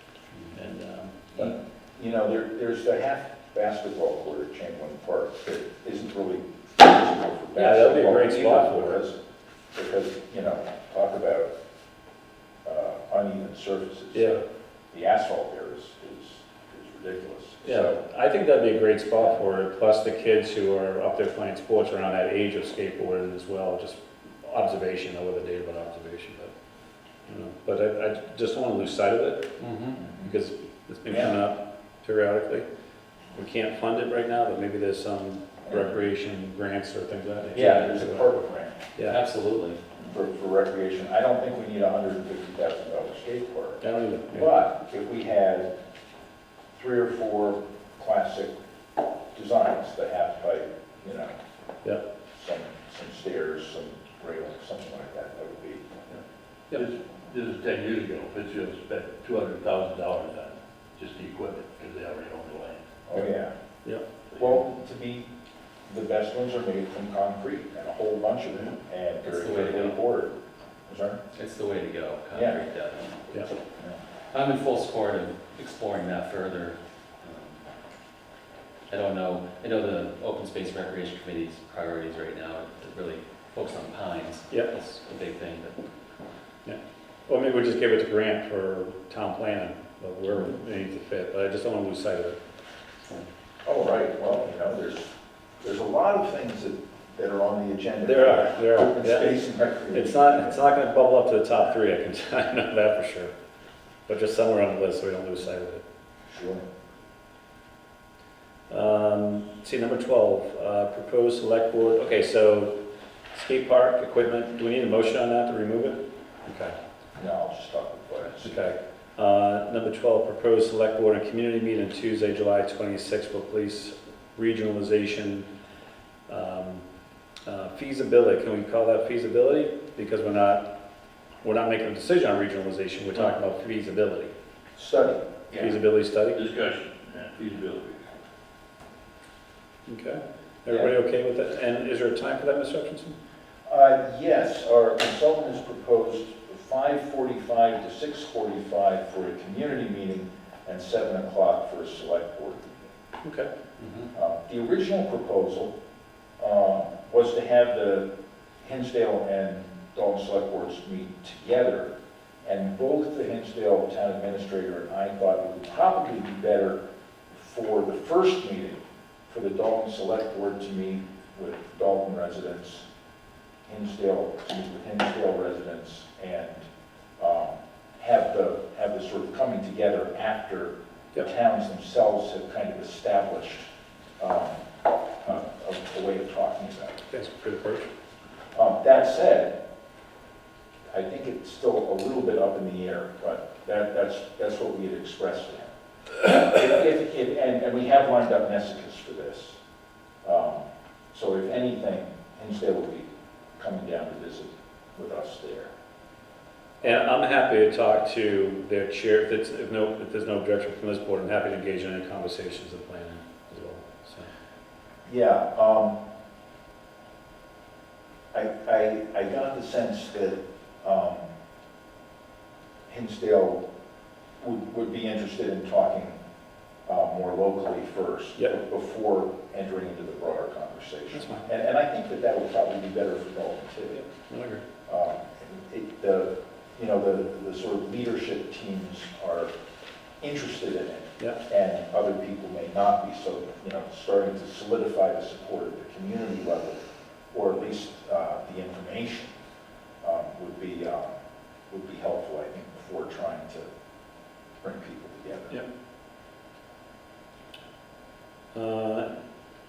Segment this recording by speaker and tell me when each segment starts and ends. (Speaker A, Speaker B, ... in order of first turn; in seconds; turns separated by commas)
Speaker A: 0.5-1.5, Speaker B: 1.3-9.2, Speaker A: 7.5-9.0, Speaker B: 9.7-11.5, Speaker B: 12.6-18.0, Speaker A: 14.1-14.4, Speaker A: 17.6-26.5, Speaker A: 27.2-29.5, Speaker C: 29.6-30.0, Speaker B: 30.0-30.3, Speaker A: 30.2-32.6, Speaker B: 31.1-31.4, Speaker A: 33.3-38.3, Speaker B: 35.6-35.9, Speaker B: 37.5-38.9, Speaker C: 37.5-37.9, Speaker A: 38.9-39.2, Speaker C: 39.1-39.8, Speaker B: 40.0-45.7, Speaker A: 43.8-44.5, Speaker B: 46.7-48.5, Speaker B: 49.3-51.3, Speaker B: 52.3-55.8, Speaker D: 56.7-62.9, Speaker B: 63.1-63.5, Speaker D: 64.3-64.6, Speaker B: 64.4-65.3, Speaker B: 65.8-70.3, Speaker C: 69.2-70.0, Speaker B: 70.9-71.2, Speaker C: 71.3-73.3, Speaker B: 72.3-72.6, Speaker C: 74.3-77.6, Speaker C: 78.9-85.8, Speaker A: 86.6-92.4, Speaker B: 93.6-100.7, Speaker A: 98.0-103.3, Speaker A: 104.1-105.8, Speaker B: 106.3-106.7, Speaker A: 108.7-112.7, Speaker A: 113.3-116.7, Speaker B: 117.2-118.6, Speaker A: 118.4-125.5, Speaker A: 126.3-126.8, Speaker A: 127.5-130.7, Speaker A: 131.4-134.3, Speaker B: 134.8-135.8, Speaker A: 135.5-136.4, Speaker D: 136.3-138.1, Speaker A: 139.9-143.2, Speaker B: 140.7-140.9, Speaker B: 143.7-152.9, Speaker A: 153.2-153.5, Speaker C: 153.8-154.1, Speaker B: 154.1-155.7, Speaker B: 156.4-158.1, Speaker B: 158.6-161.9, Speaker B: 162.4-166.8, Speaker B: 167.3-172.9, Speaker B: 173.7-176.7, Speaker B: 177.2-183.7, Speaker B: 184.2-184.6, Speaker B: 185.2-187.0, Speaker A: 187.1-187.9, Speaker B: 188.5-189.6, Speaker B: 190.9-199.6, Speaker B: 200.2-205.7, Speaker A: 206.8-214.3, Speaker B: 215.0-216.0, Speaker B: 218.3-221.2, Speaker B: 222.9-223.6, Speaker B: 224.4-226.2, Speaker B: 226.8-234.0, Speaker A: 231.1-231.5, Speaker A: 233.9-234.6, Speaker B: 234.9-239.5, Speaker B: 240.2-246.8, Speaker B: 247.3-249.3, Speaker B: 250.0-251.1, Speaker B: 251.7-253.7, Speaker B: 254.6-255.6, Speaker A: 258.5-259.1